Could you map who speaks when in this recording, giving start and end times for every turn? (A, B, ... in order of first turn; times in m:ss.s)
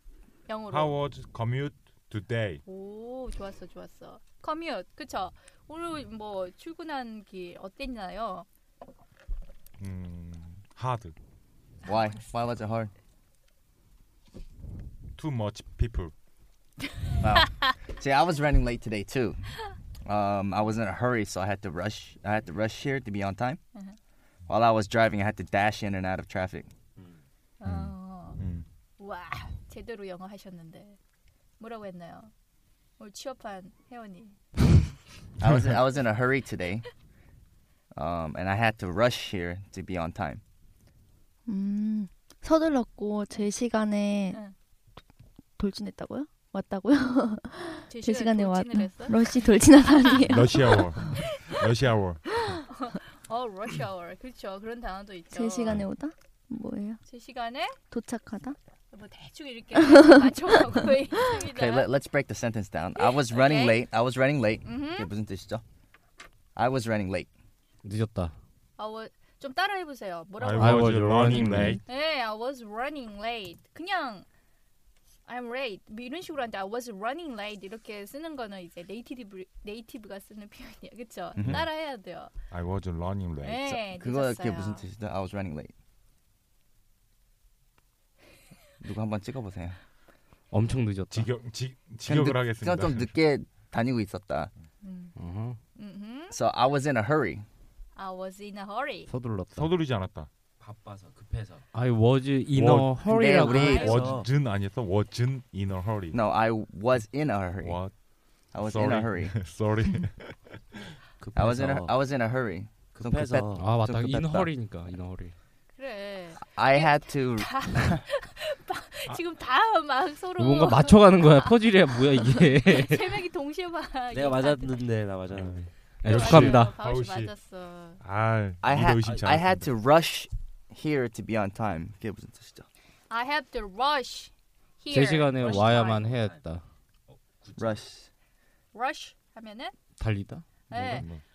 0:00.5-0:01.0 A
0:00.7-0:02.6 B
0:02.6-0:08.5 A
0:09.8-0:11.1 B
0:11.8-0:12.9 C
0:15.2-0:16.1 B
0:17.2-0:19.4 C
0:20.0-0:23.6 C
0:24.5-0:26.7 C
0:27.6-0:28.4 A
0:27.6-0:28.6 B
0:29.0-0:31.0 A
0:31.6-0:32.3 A
0:33.0-0:34.4 A
0:35.4-0:36.8 C
0:37.9-0:40.4 C
0:41.4-0:44.4 D
0:45.6-0:51.0 D
0:47.9-0:50.0 A
0:50.3-0:52.2 B
0:52.7-0:55.8 A
0:55.3-0:57.0 D
0:57.0-0:57.8 A
0:57.9-0:58.6 D
0:58.9-1:01.9 A
0:59.7-1:00.3 D
1:01.3-1:05.6 C
1:03.0-1:03.8 A
1:04.6-1:05.1 A
1:06.6-1:07.3 C
1:07.8-1:08.3 E
1:08.8-1:10.9 A
1:10.4-1:11.8 B
1:10.6-1:11.8 E
1:11.8-1:14.2 A
1:15.3-1:22.3 A
1:21.4-1:21.6 C
1:21.4-1:21.7 B
1:22.5-1:23.8 B
1:23.4-1:24.8 A
1:23.9-1:25.7 C
1:28.8-1:29.8 C
1:30.5-1:31.3 E
1:31.1-1:33.1 B
1:32.0-1:34.5 C
1:34.8-1:35.2 A
1:35.2-1:35.6 E
1:35.8-1:36.3 A
1:36.3-1:37.4 C
1:38.0-1:39.1 A
1:39.1-1:39.7 E
1:39.5-1:40.3 B
1:40.6-1:41.6 F
1:41.7-1:44.0 E
1:42.5-1:42.9 B
1:43.0-1:44.0 C
1:43.5-1:44.2 A
1:43.6-1:46.2 B
1:43.8-1:44.3 F
1:46.1-1:47.8 C
1:47.6-1:47.9 B
1:48.5-1:49.4 C
1:48.6-1:50.6 B
1:51.2-1:51.9 F
1:51.3-1:54.5 C
1:52.9-1:53.7 F
1:53.6-1:55.3 E
1:55.8-2:04.8 A
1:56.5-1:58.0 C
2:00.4-2:03.1 E
2:04.1-2:05.7 F
2:05.3-2:07.3 B
2:06.0-2:06.7 E
2:06.0-2:08.0 A
2:08.0-2:09.7 B
2:08.6-2:12.6 C
2:13.1-2:16.1 A
2:14.9-2:16.6 E
2:15.4-2:16.3 F
2:17.2-2:17.8 F
2:17.6-2:18.1 C
2:18.7-2:19.7 A
2:20.0-2:21.0 E
2:20.7-2:21.1 A
2:20.8-2:21.2 B